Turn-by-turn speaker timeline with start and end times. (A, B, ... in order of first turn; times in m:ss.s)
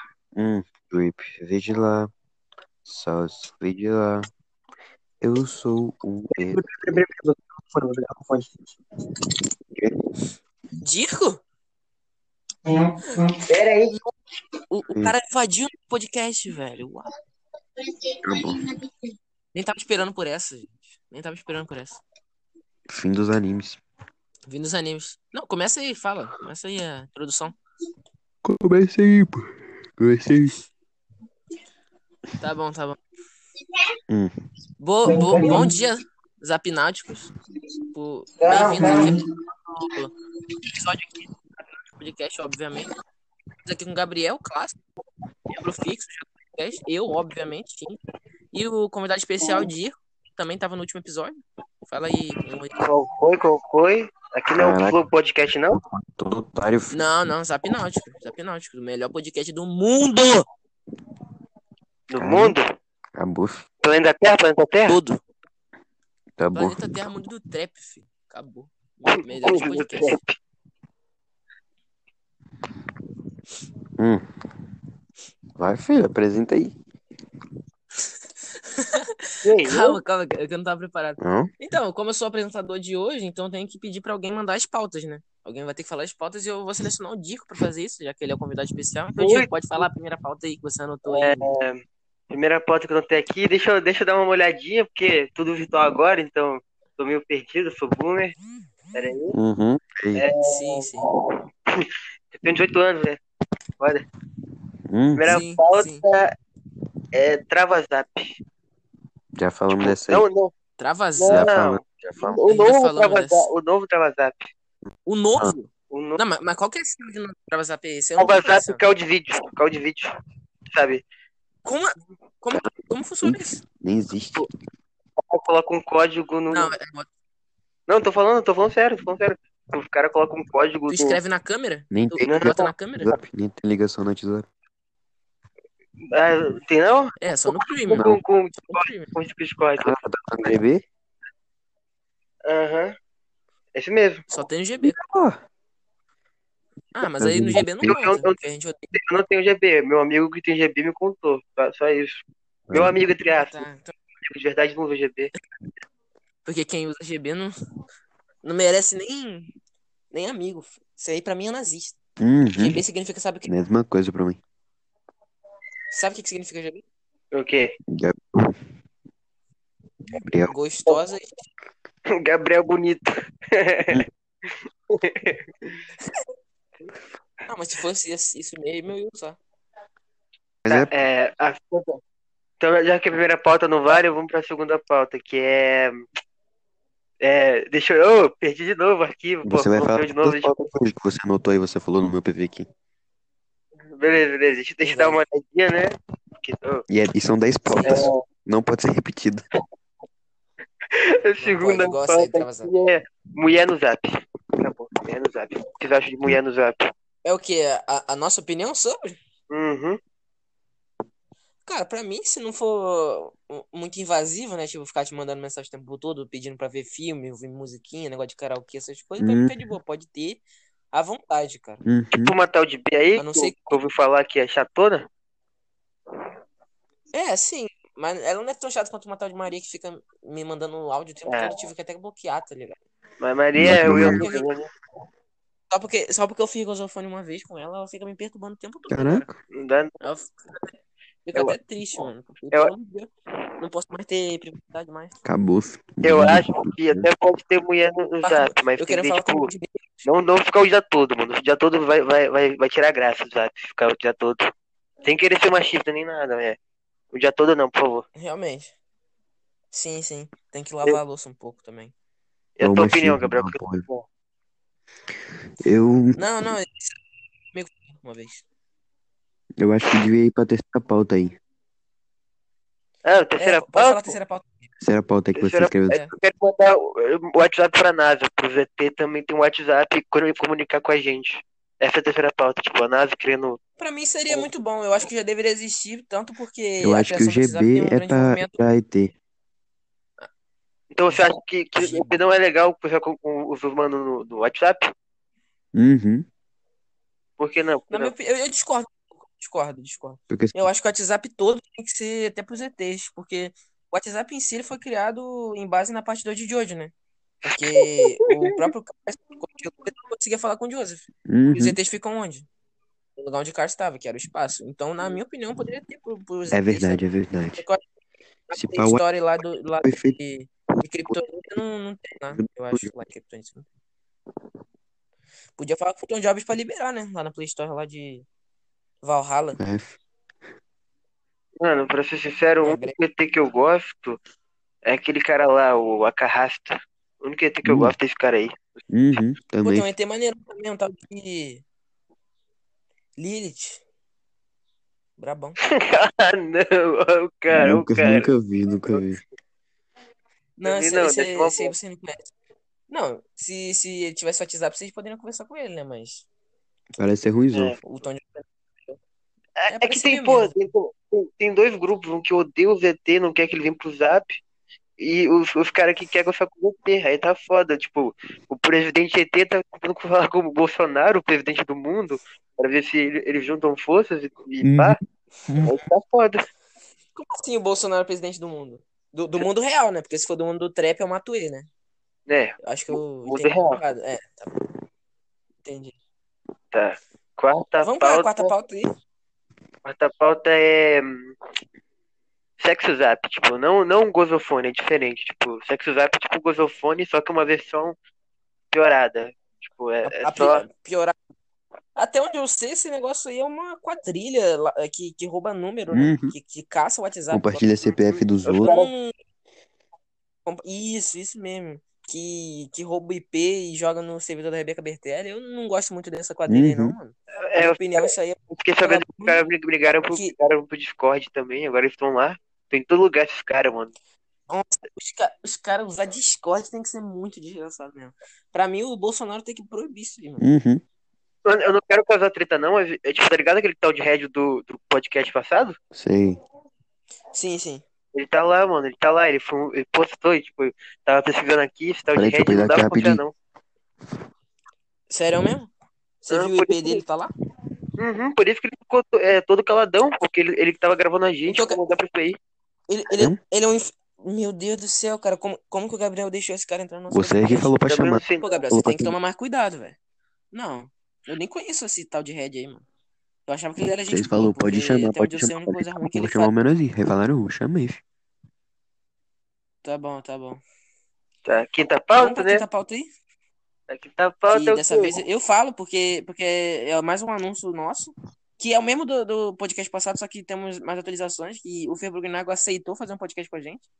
0:00.4-0:02.1 A
0:02.8-0:04.3 A
0:05.2-0:06.6 A
0:06.5-0:08.4 B
0:10.8-0:11.4 C
0:13.0-0:13.4 C
0:13.4-0:14.0 B
0:14.7-0:17.1 C
0:18.2-0:18.6 A
0:19.5-0:22.0 C
0:22.9-0:23.8 A
0:24.5-0:27.6 C
0:28.4-0:30.6 A
0:32.4-0:33.0 C
0:34.8-0:37.3 C
0:35.2-0:35.6 B
0:37.9-0:39.2 C
0:38.4-0:39.2 B
0:39.7-0:40.1 C
0:40.7-0:41.3 C
0:41.9-0:42.9 C
0:43.6-0:44.8 C
0:45.5-0:48.0 C
0:48.5-0:52.8 C
0:52.8-0:55.8 B
0:54.5-0:55.0 A
0:55.7-0:57.1 A
0:56.9-1:00.5 C
1:02.1-1:02.7 B
1:02.2-1:02.6 A
1:03.2-1:03.6 A
1:03.8-1:05.0 B
1:04.8-1:05.2 C
1:06.4-1:06.9 A
1:06.5-1:10.2 C
1:09.2-1:10.3 B
1:14.0-1:14.2 A
1:15.6-1:16.8 A
1:18.4-1:31.5 C
1:19.4-1:20.0 B
1:21.2-1:21.5 A
1:29.2-1:29.9 B
1:31.1-1:38.4 B
1:38.9-1:39.4 B
1:39.3-1:40.2 A
1:40.1-1:43.2 B
1:40.4-1:41.1 C
1:44.8-1:45.2 A
1:45.2-1:46.3 B
1:45.2-1:46.0 C
1:47.1-1:48.4 B
1:49.4-1:50.2 A
1:49.7-1:50.5 B
1:50.8-1:51.5 C
1:51.2-1:54.5 B
1:51.3-1:52.4 A
1:52.2-1:53.5 C
1:55.0-1:58.8 C
1:55.9-1:56.2 B
1:58.2-2:00.1 B
2:00.7-2:01.0 B
2:01.6-2:03.6 C
2:03.2-2:04.4 A
2:05.2-2:06.7 B
2:06.5-2:07.1 C
2:07.9-2:11.2 B
2:10.9-2:13.2 C
2:11.9-2:14.5 A
2:12.2-2:12.7 B
2:16.1-2:20.5 B
2:17.2-2:18.1 C
2:18.0-2:18.2 A
2:18.6-2:19.1 C
2:19.8-2:20.8 A
2:22.4-2:23.0 B
2:23.7-2:24.2 B
2:24.3-2:25.0 C
2:24.8-2:25.4 A
2:26.9-2:28.9 C
2:27.2-2:28.0 A
2:27.8-2:28.4 B
2:28.9-2:33.6 B
2:33.3-2:33.9 C
2:34.2-2:35.3 B
2:36.4-2:37.5 C
2:38.4-2:39.5 C
2:40.1-2:42.0 C
2:42.2-2:42.8 A
2:42.5-2:43.5 C
2:43.5-2:44.4 A
2:45.9-2:46.8 C
2:47.3-2:47.7 B
2:47.9-2:48.6 A
2:50.1-2:50.5 A
2:50.4-2:51.4 C
2:52.1-2:55.8 B
2:57.5-2:59.4 C
3:00.6-3:00.9 A
3:00.7-3:02.0 B
3:02.6-3:06.0 B
3:07.2-3:10.7 B
3:09.4-3:12.7 A
3:13.9-3:16.8 B
3:14.8-3:15.2 C
3:16.9-3:19.4 A
3:17.6-3:18.1 C
3:17.8-3:18.2 B
3:20.9-3:26.9 B
3:21.4-3:22.7 C
3:27.2-3:29.2 C
3:29.5-3:30.0 B
3:31.6-3:40.4 C
3:39.2-3:39.5 A
3:40.9-3:41.8 C
3:41.8-3:42.3 A
3:42.2-3:45.1 B
3:43.2-3:43.8 C
3:47.1-3:52.8 C
3:51.3-3:51.6 B
3:53.2-3:54.7 B
3:53.6-3:54.2 A
3:54.0-3:54.5 C
3:55.7-3:59.3 C
3:58.9-3:59.3 A
3:59.5-4:00.0 B
4:00.0-4:05.1 C
4:05.2-4:07.0 A
4:06.0-4:09.5 B
4:08.2-4:10.1 C
4:10.0-4:14.5 B
4:15.0-4:16.6 B
4:17.1-4:18.0 B
4:18.2-4:18.7 C
4:19.7-4:21.9 C
4:22.6-4:24.0 B
4:22.6-4:23.8 A
4:25.6-4:26.5 A
4:26.2-4:27.0 C
4:27.5-4:28.4 C
4:29.6-4:31.4 A
4:33.0-4:34.2 B
4:33.4-4:34.7 C
4:34.8-4:36.0 A
4:35.3-4:43.6 B
4:43.8-4:48.6 C
4:46.8-4:49.1 A
4:50.9-4:54.9 B
4:51.1-4:52.2 C
4:55.7-4:56.2 A
4:57.4-4:58.1 B
4:57.9-5:06.9 C
5:00.3-5:00.6 A
5:07.4-5:12.5 C
5:07.8-5:08.5 B
5:11.2-5:11.8 A
5:13.2-5:17.0 C
5:16.5-5:17.6 A
5:17.6-5:17.8 C
5:18.5-5:23.7 C
5:18.5-5:19.0 A
5:19.8-5:20.2 A
5:20.8-5:21.2 A
5:22.3-5:22.9 A
5:25.6-5:28.2 C
5:29.0-5:29.6 C
5:29.6-5:30.0 A
5:31.6-5:34.2 B
5:32.6-5:33.0 C
5:34.8-5:38.6 B
5:37.6-5:37.9 A
5:38.9-5:39.9 A
5:39.6-5:41.6 C
5:43.2-5:43.8 C
5:45.2-5:45.6 C
5:45.6-5:48.3 B
5:47.5-5:49.2 A
5:50.6-5:52.3 C
5:50.6-5:51.7 B
5:52.9-5:56.3 C
5:57.0-5:57.8 A
5:57.5-5:57.8 B
5:57.8-5:59.0 C
5:59.6-6:04.4 B
5:59.7-6:00.5 C
6:05.0-6:15.0 B
6:14.6-6:15.7 A
6:15.6-6:16.4 B
6:17.1-6:21.7 C
6:22.3-6:23.8 B
6:22.6-6:24.5 C
6:25.6-6:25.9 C
6:26.7-6:28.5 B
6:27.8-6:28.9 C
6:29.8-6:31.3 B
6:32.6-6:38.0 B
6:38.7-6:40.6 B
6:40.0-6:41.1 C
6:42.0-6:47.6 C
6:45.9-6:46.3 A
6:47.3-6:48.7 A
6:47.8-6:48.9 B
6:48.6-6:49.1 C
6:50.4-6:59.4 C
6:56.5-6:57.0 A
6:57.4-7:03.9 B
7:04.5-7:10.4 C
7:10.4-7:10.8 A
7:11.4-7:15.8 B
7:15.9-7:16.4 A
7:17.3-7:17.8 C
7:18.1-7:23.3 B
7:22.1-7:23.2 A
7:25.1-7:25.7 C
7:26.2-7:27.3 C
7:26.3-7:27.0 B
7:28.0-7:32.4 B
7:31.5-7:31.8 C
7:32.9-7:37.7 C
7:37.1-7:39.1 A
7:37.9-7:38.6 B
7:38.4-7:40.0 C
7:40.5-7:42.8 C
7:43.5-7:46.5 C
7:44.1-7:48.0 A
7:49.8-7:50.6 C
7:51.4-7:52.6 B
7:52.2-7:53.1 C
7:53.9-7:55.2 B
7:54.5-8:03.8 C